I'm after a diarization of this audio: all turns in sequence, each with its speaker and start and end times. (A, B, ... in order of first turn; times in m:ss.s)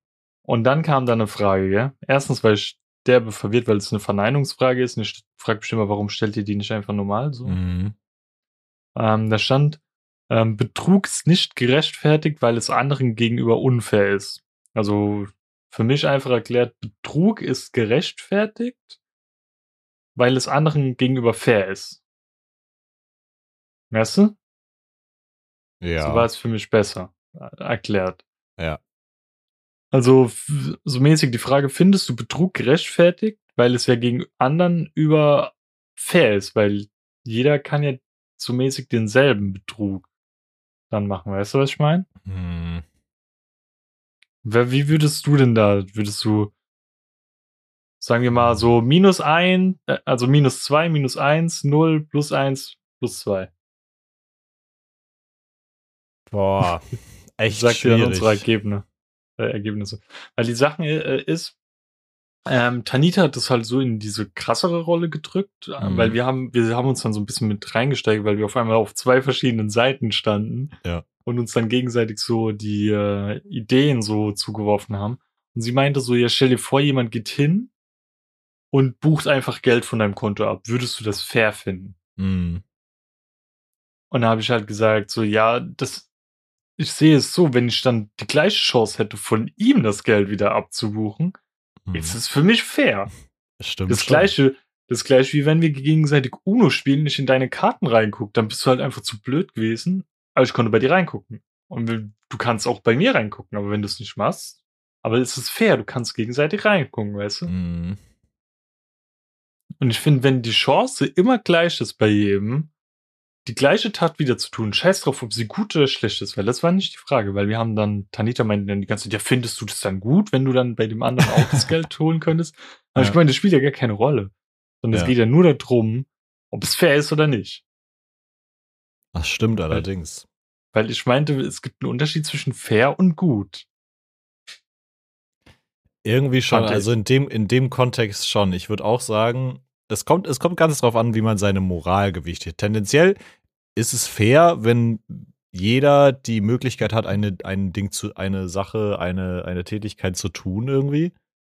0:00.4-0:07.6 A
0:07.5-0:07.9 B
0:09.0-0:19.0 A
0:20.2-0:22.0 A
0:23.9-0:24.3 A
0:25.8-0:26.3 B
0:26.0-0:28.2 A
0:29.9-0:40.0 A
0:40.9-0:42.1 A
0:42.2-0:42.8 B
0:44.4-0:46.5 A
0:48.0-0:53.5 A
0:56.3-0:56.8 B
0:57.4-0:58.4 B
0:57.5-0:58.8 A
0:59.4-1:01.6 A
1:02.5-1:10.7 A
1:05.8-1:06.2 B
1:11.2-1:17.7 A
1:18.7-1:22.0 A
1:22.2-1:22.6 B
1:24.1-1:26.1 A
1:26.8-1:31.4 A
1:31.9-1:32.2 B
1:31.9-1:33.1 A
1:33.6-1:34.3 B
1:33.9-1:47.5 A
1:47.5-1:48.0 B
1:49.8-1:52.7 A
1:53.4-2:07.6 A
2:09.1-2:10.2 B
2:10.7-2:13.7 A
2:16.0-2:23.2 B
2:16.5-2:16.9 A
2:23.7-2:31.1 B